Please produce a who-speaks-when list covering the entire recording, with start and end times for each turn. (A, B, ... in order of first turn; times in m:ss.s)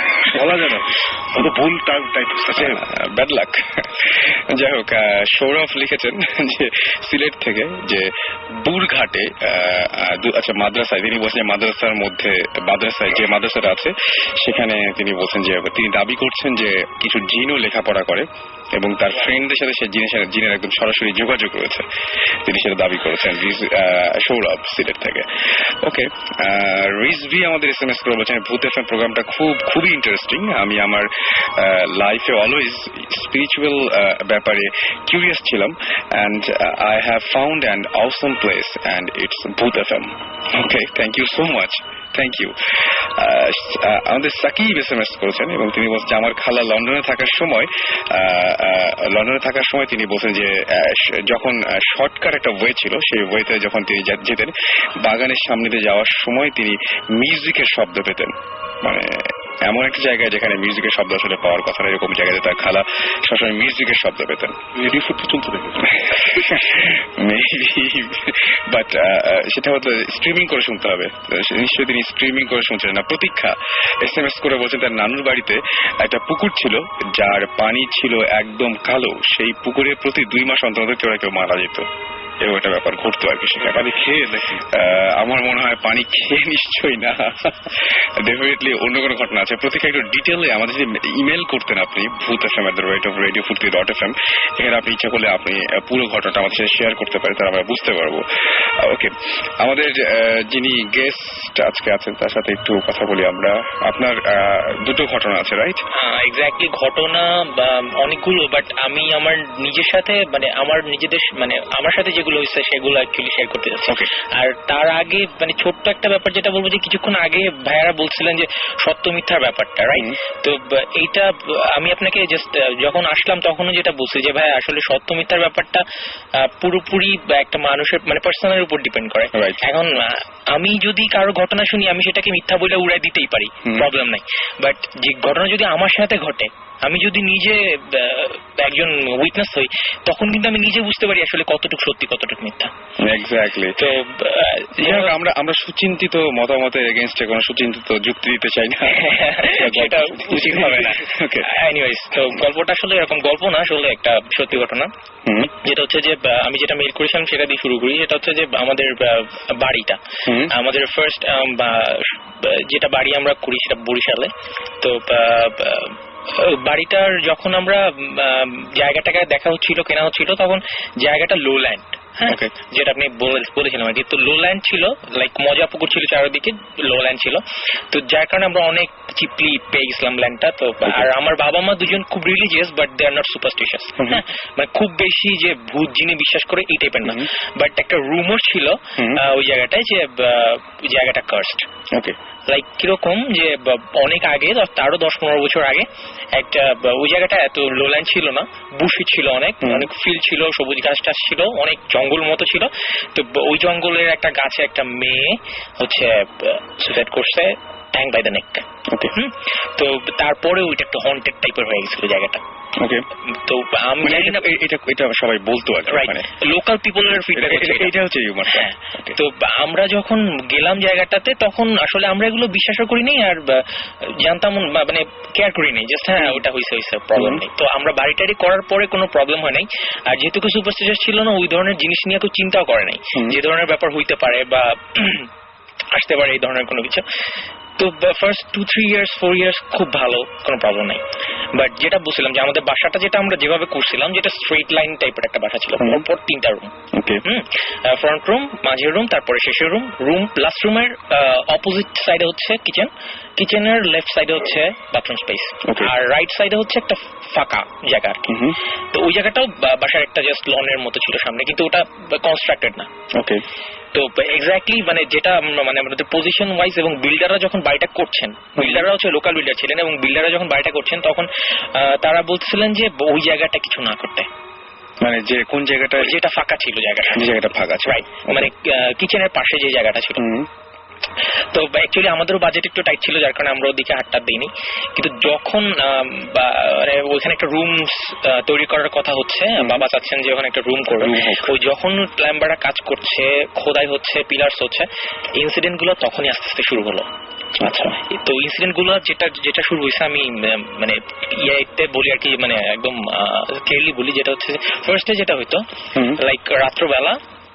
0:00.3-0:02.8 A
0:02.5-0:21.9 B
0:22.4-1:04.6 B
1:04.7-1:06.3 A
1:06.0-1:21.9 B
1:22.4-1:23.9 B
1:23.6-1:24.6 A
1:24.7-1:45.8 B
1:45.9-2:05.8 C
2:06.4-2:22.7 C
2:09.3-2:09.6 B
2:13.6-2:13.9 B
2:23.0-2:23.8 B
2:23.8-2:25.2 C
2:24.8-2:31.5 B
2:28.8-2:34.9 C
2:35.2-2:35.5 B
2:35.5-3:11.7 C
2:40.2-2:40.5 B
3:04.0-3:04.2 B
3:07.0-3:07.3 B
3:09.0-3:09.2 B
3:12.5-3:32.4 C
3:19.6-3:19.9 B
3:28.9-3:29.1 B
3:32.8-3:33.0 B
3:33.3-3:34.5 C
3:34.0-3:36.3 B
3:35.9-3:37.9 C
3:37.3-3:39.2 B
3:38.5-3:55.3 C
3:47.2-3:47.4 B
3:55.9-3:57.0 C
3:57.8-4:18.4 C
4:05.8-4:06.0 B
4:06.9-4:07.2 B
4:15.6-4:15.9 B
4:18.3-4:18.6 B
4:18.9-4:22.9 C
4:23.1-4:23.4 B
4:23.9-4:34.3 C
4:28.6-4:28.9 B
4:35.0-4:36.2 B
4:36.0-4:40.3 C
4:37.1-4:38.5 B
4:40.2-4:40.5 B
4:41.5-4:57.1 C
4:49.6-4:49.8 B
4:51.0-4:51.5 B
4:57.6-4:58.0 B
4:58.0-5:07.2 C
5:05.9-5:06.2 B